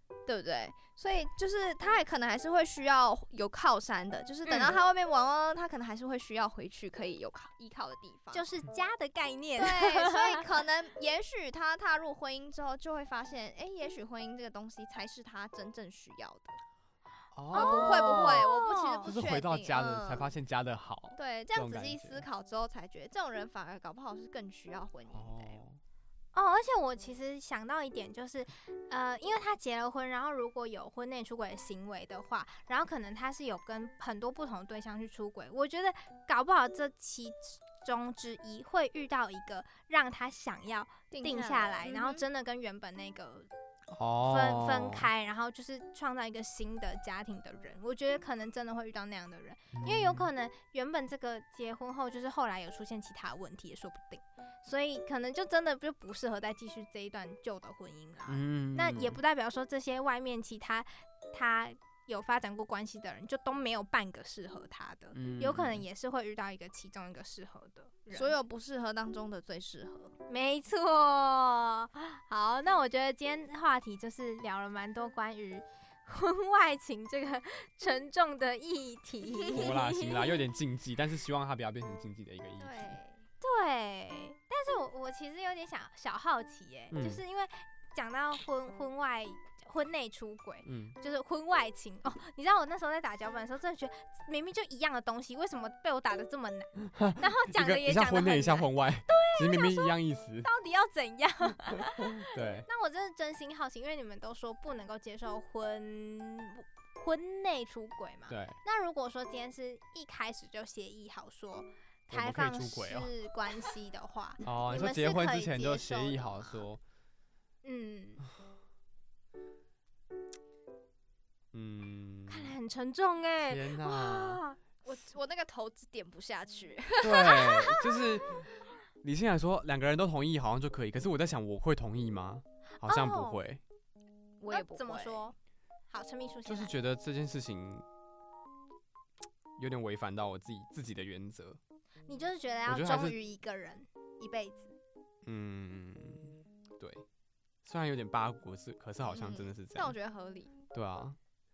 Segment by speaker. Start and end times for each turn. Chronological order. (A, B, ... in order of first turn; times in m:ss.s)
0:00.3-0:08.5 A
0:04.5-0:04.8 B
0:08.3-0:10.4 B
0:09.6-0:16.6 A
0:17.3-0:18.5 C
0:17.5-0:19.1 B
0:17.5-0:20.3 A
0:19.0-0:22.3 C
0:21.2-0:25.6 A
0:25.1-0:25.8 C
0:26.3-0:43.5 B
0:41.1-0:42.3 A
0:43.9-0:45.1 C
0:44.3-1:08.4 B
0:49.7-0:50.3 C
0:58.3-0:59.2 C
1:05.1-1:05.8 C
1:08.1-1:10.1 A
1:10.3-1:20.3 B
1:19.5-1:23.0 C
1:22.6-1:23.3 A
1:23.4-1:56.6 B
1:26.9-1:27.2 C
1:30.6-1:31.0 C
1:36.9-1:40.5 C
1:41.7-1:42.7 C
1:48.3-1:48.6 C
1:52.1-1:53.1 C
1:54.4-1:56.8 C
1:57.6-1:58.2 B
2:01.5-2:02.5 C
2:02.3-2:04.6 B
2:03.4-2:04.4 C
2:04.8-2:08.1 A
2:07.0-2:08.5 C
2:09.0-2:13.6 C
2:12.8-2:13.4 B
2:14.4-2:15.3 A
2:14.5-2:15.4 B
2:15.9-2:16.8 B
2:16.5-2:17.8 C
2:19.6-2:21.6 C
2:22.1-2:24.8 B
2:22.7-2:23.2 C
2:25.2-2:27.0 C
2:27.6-2:30.0 C
2:29.1-2:30.6 A
2:30.7-2:31.2 C